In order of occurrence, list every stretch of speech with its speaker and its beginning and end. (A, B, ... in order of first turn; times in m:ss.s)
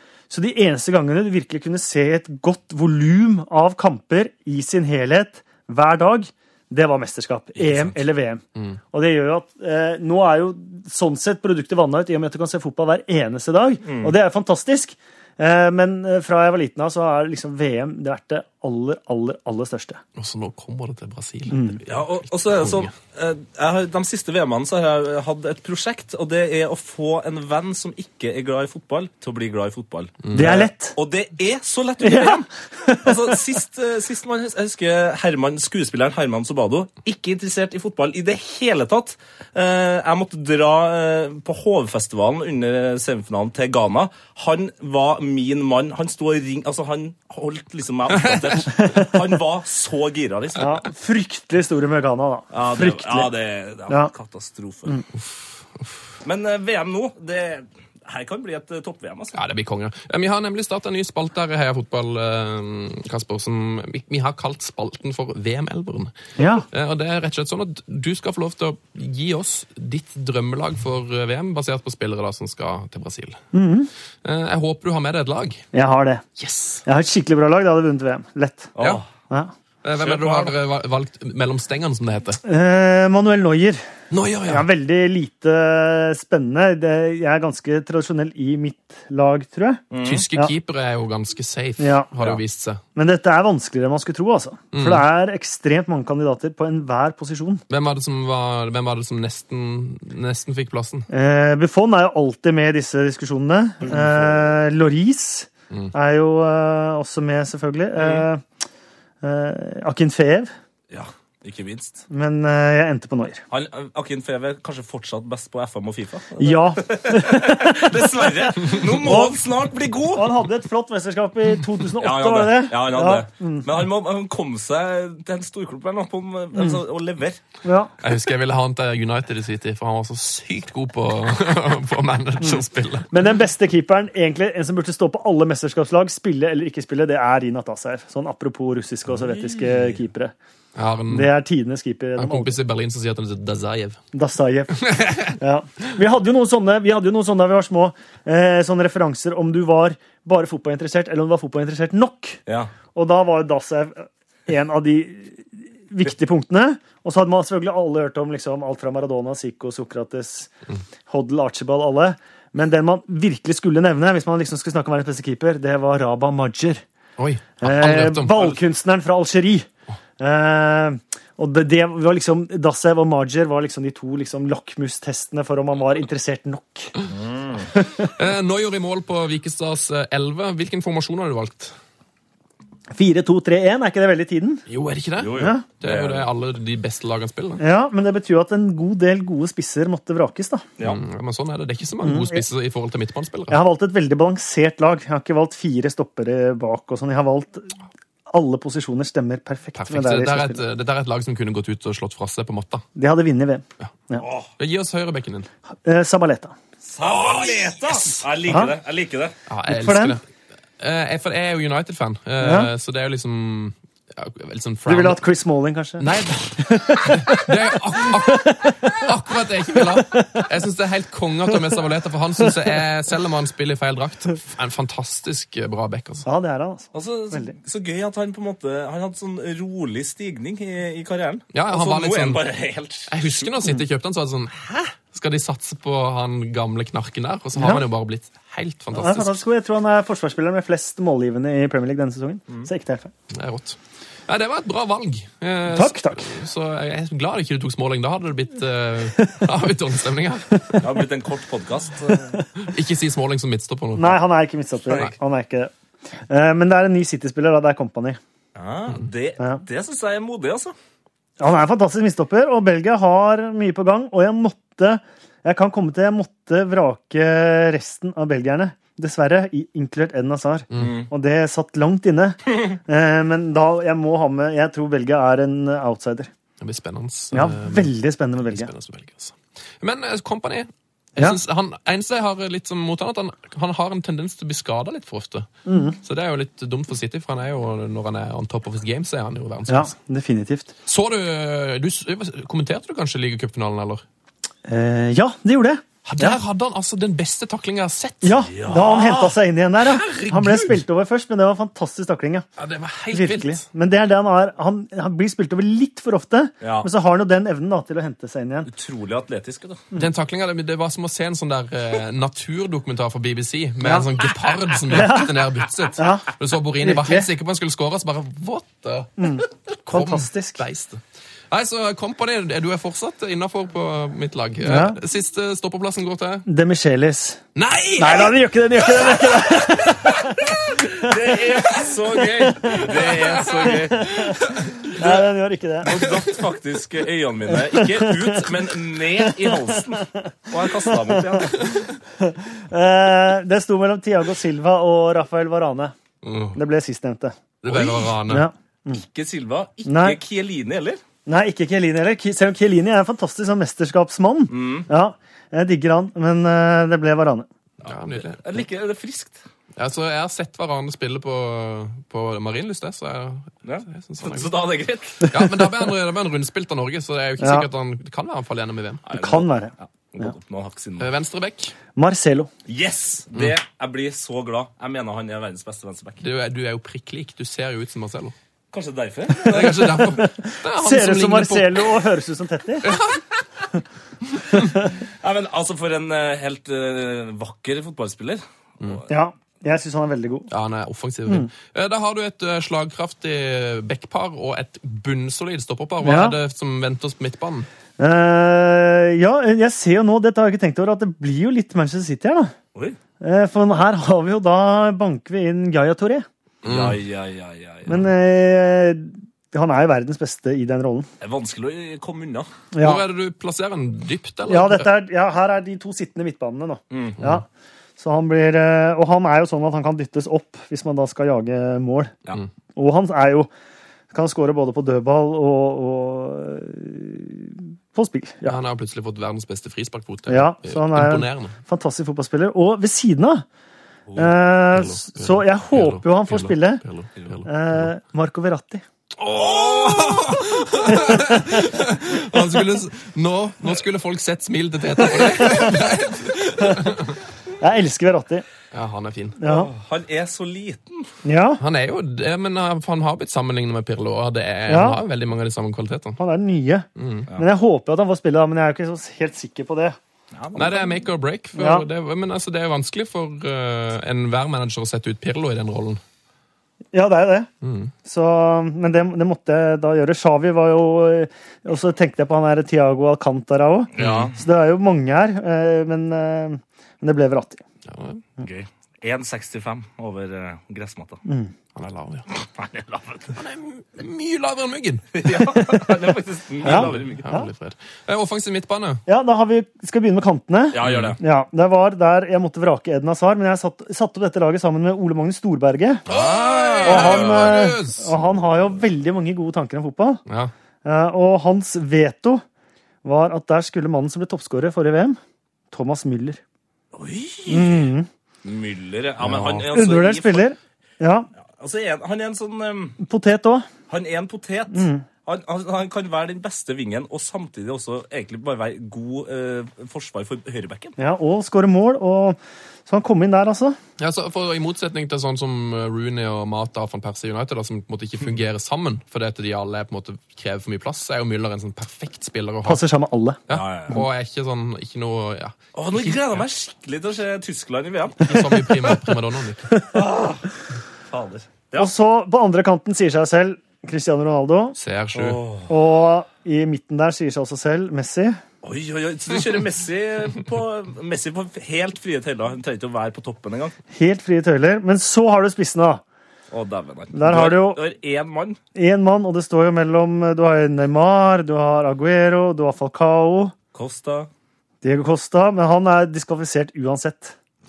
0:00.3-0:20.0 A
0:13.8-0:14.2 B
0:20.2-0:22.9 C
0:21.5-0:21.8 A
0:21.9-0:50.7 B
0:30.3-0:30.9 A
0:32.0-0:33.3 A
0:48.1-0:48.6 C
0:48.7-0:49.2 A
0:50.6-0:53.3 A
0:52.5-0:54.9 B
0:55.2-0:55.9 C
0:56.2-0:59.4 B
0:59.3-1:06.1 C
1:06.4-1:06.6 A
1:06.7-1:13.4 C
1:13.5-1:13.9 A
1:14.2-1:15.6 C
1:15.7-1:16.2 A
1:16.4-1:16.8 C
1:16.8-1:18.7 A
1:18.8-1:19.0 B
1:19.8-1:22.4 C
1:20.0-1:20.5 B
1:22.4-1:23.8 A
1:24.1-1:24.6 C
1:24.4-1:29.8 A
1:29.9-1:30.2 B
1:30.0-1:32.8 C
1:31.8-1:32.4 A
1:32.9-1:37.6 A
1:34.7-1:35.0 C
1:37.7-1:41.1 C
1:41.1-1:48.4 A
1:49.2-1:50.5 A
1:50.9-1:52.0 B
1:52.1-1:53.4 A
1:53.5-2:00.3 B
1:56.4-1:59.4 A
2:00.1-2:03.7 A
2:02.0-2:07.4 B
2:07.6-2:07.9 A
2:08.0-2:13.1 C
2:12.4-2:20.3 A
2:19.4-2:19.8 B
2:20.7-2:21.3 C
2:21.1-2:22.6 A
2:22.2-2:24.0 C
2:24.1-2:32.4 A
2:24.8-2:25.3 C
2:32.9-2:40.5 A
2:41.1-2:46.8 A
2:47.2-2:48.6 C
2:47.6-2:49.7 A
2:50.2-2:56.9 A
2:57.1-2:57.7 B
2:57.7-2:58.1 A
2:58.0-3:01.7 C
3:02.9-3:04.6 A
3:04.7-3:07.6 C
3:05.2-3:06.3 B
3:05.4-3:05.6 A
3:07.6-3:10.6 A
3:10.8-3:13.6 C
3:12.0-3:12.4 A
3:13.5-3:17.7 A
3:18.3-3:20.6 A
3:19.7-3:22.8 C
3:22.9-3:24.3 A
3:24.2-3:24.5 B
3:24.6-3:25.5 C
3:25.8-3:26.5 A
3:26.8-3:29.3 B
3:27.0-3:28.2 C
3:29.5-3:30.2 C
3:29.7-3:30.2 A
3:30.8-3:35.2 C
3:32.4-3:32.7 A
3:34.8-3:39.1 A
3:36.0-3:46.2 C
3:39.9-3:40.5 A
3:46.2-3:47.5 A
3:46.9-3:53.6 B
3:51.5-3:52.4 C
3:53.1-3:59.4 C
3:57.6-3:57.8 A
3:58.9-4:03.1 A
4:03.3-4:10.8 C
4:05.7-4:06.3 A
4:09.2-4:09.5 A
4:10.5-4:10.8 A
4:10.8-4:12.4 B
4:12.1-4:12.4 A
4:12.6-4:14.2 C
4:14.0-4:15.7 A
4:16.3-4:18.2 A
4:18.5-4:20.7 B
4:21.4-4:36.3 A
4:30.7-4:31.0 C
4:30.8-4:31.1 B
4:36.6-4:49.9 C
4:37.3-4:38.7 A
4:45.6-4:46.0 A
4:49.7-4:50.7 A
4:50.8-4:54.0 C
4:54.7-4:56.4 A
4:56.0-4:58.4 C
4:58.2-5:02.4 A
4:58.6-4:59.2 B
4:59.9-5:00.8 C
5:02.6-5:03.6 C
5:03.1-5:08.7 A
5:06.6-5:06.9 B
5:08.7-5:09.8 B
5:09.9-5:26.4 C
5:13.8-5:14.1 A
5:14.9-5:15.3 A
5:16.0-5:17.3 A
5:19.2-5:20.6 A
5:24.6-5:25.0 A
5:26.4-5:27.4 A
5:27.5-5:30.4 C
5:28.0-5:31.1 A
5:31.0-5:34.2 B
5:32.6-5:35.9 A
5:33.2-5:35.1 C
5:35.8-5:41.6 B
5:35.9-5:36.4 C
5:37.5-5:38.4 A
5:39.2-5:40.2 A
5:40.8-5:45.9 A
5:46.2-5:46.6 C
5:46.5-5:47.3 A
5:47.6-5:48.5 C
5:47.7-5:48.0 B
5:48.2-5:49.0 A
5:48.9-5:51.0 B
5:49.8-5:50.2 A
5:51.2-5:57.5 A
5:54.5-5:54.9 B
5:57.8-5:58.6 C
5:57.8-5:59.4 B
5:59.8-6:04.5 C
6:03.6-6:05.3 B
6:05.3-6:09.0 C
6:07.4-6:07.7 A
6:09.1-6:11.1 B
6:09.1-6:10.3 A
6:11.0-6:11.7 C
6:12.0-6:12.5 A
6:12.7-6:16.2 B
6:16.2-6:18.3 C
6:18.7-6:19.9 B
6:19.4-6:22.0 C
6:19.5-6:22.9 A
6:22.8-6:23.2 C
6:24.5-6:24.8 A
6:25.1-6:29.0 B
6:29.1-6:30.5 A
6:30.5-6:37.7 C
6:36.0-6:36.4 A
6:38.0-6:42.5 A
6:43.2-6:46.2 A
6:46.6-6:47.0 C
6:46.6-6:48.0 B
6:47.9-6:51.1 A
6:51.2-6:52.5 B
6:52.7-6:53.0 A
6:52.8-6:54.9 C
6:54.4-6:57.4 A
6:56.9-6:57.2 B
6:58.0-7:02.1 A
7:02.7-7:03.5 A
7:04.1-7:08.6 A
7:08.4-7:11.6 C
7:10.3-7:13.4 A
7:14.1-7:14.3 B
7:14.2-7:16.8 A
7:14.7-7:17.9 C
7:17.2-7:17.4 B
7:17.4-7:18.8 A
7:19.2-7:27.2 C
7:19.4-7:20.1 B
7:20.9-7:21.6 A
7:25.1-7:25.7 A
7:27.6-7:28.4 A
7:28.7-7:29.4 C
7:29.4-7:29.7 A
7:29.4-7:31.1 B
7:31.2-7:31.6 A
7:31.6-7:36.2 C
7:34.7-7:35.0 A
7:36.2-7:40.0 A
7:37.0-7:37.3 C
7:40.3-7:41.0 B
7:40.5-7:46.0 C
7:41.5-7:41.8 A
7:46.9-7:47.5 A
7:47.6-7:47.9 C
7:48.0-7:57.6 A
7:53.9-7:54.4 B
7:54.0-7:54.3 C
7:57.8-7:58.2 C
7:58.4-8:01.2 B
8:01.2-8:01.5 A
8:01.7-8:02.3 C
8:02.4-8:03.4 B
8:03.3-8:05.2 C
8:05.1-8:07.3 B
8:05.6-8:05.9 A
8:06.6-8:07.5 A
8:06.6-8:09.0 C
8:09.1-8:16.0 A
8:10.7-8:11.2 B
8:10.8-8:11.2 C
8:16.1-8:18.0 C
8:16.1-8:17.7 B
8:16.8-8:20.2 A
8:20.3-8:20.5 C
8:20.8-8:22.4 A
8:23.0-8:25.2 A
8:25.7-8:26.4 A
8:26.9-8:27.9 B
8:27.5-8:28.1 A
8:28.4-8:30.5 B
8:29.2-8:29.7 C
8:29.7-8:31.3 A
8:31.5-8:33.0 B
8:33.0-8:33.7 A
8:33.9-8:41.0 B
8:34.7-8:35.0 A
8:41.0-8:43.8 A
8:44.0-8:52.8 C
8:52.6-8:53.4 A
8:53.5-8:56.2 C
8:53.5-8:54.0 B
8:55.7-8:58.3 B
8:58.2-8:59.7 C
8:59.7-9:00.0 A
8:59.9-9:00.4 B
9:01.1-9:01.9 B
9:01.7-9:04.8 A
9:04.8-9:05.4 C
9:05.1-9:05.7 B
9:05.7-9:08.4 A
9:08.6-9:13.7 B
9:13.9-9:16.0 A
9:16.5-9:18.6 B
9:17.1-9:17.8 A
9:18.7-9:23.5 A
9:23.7-9:24.3 B
9:24.8-9:27.4 A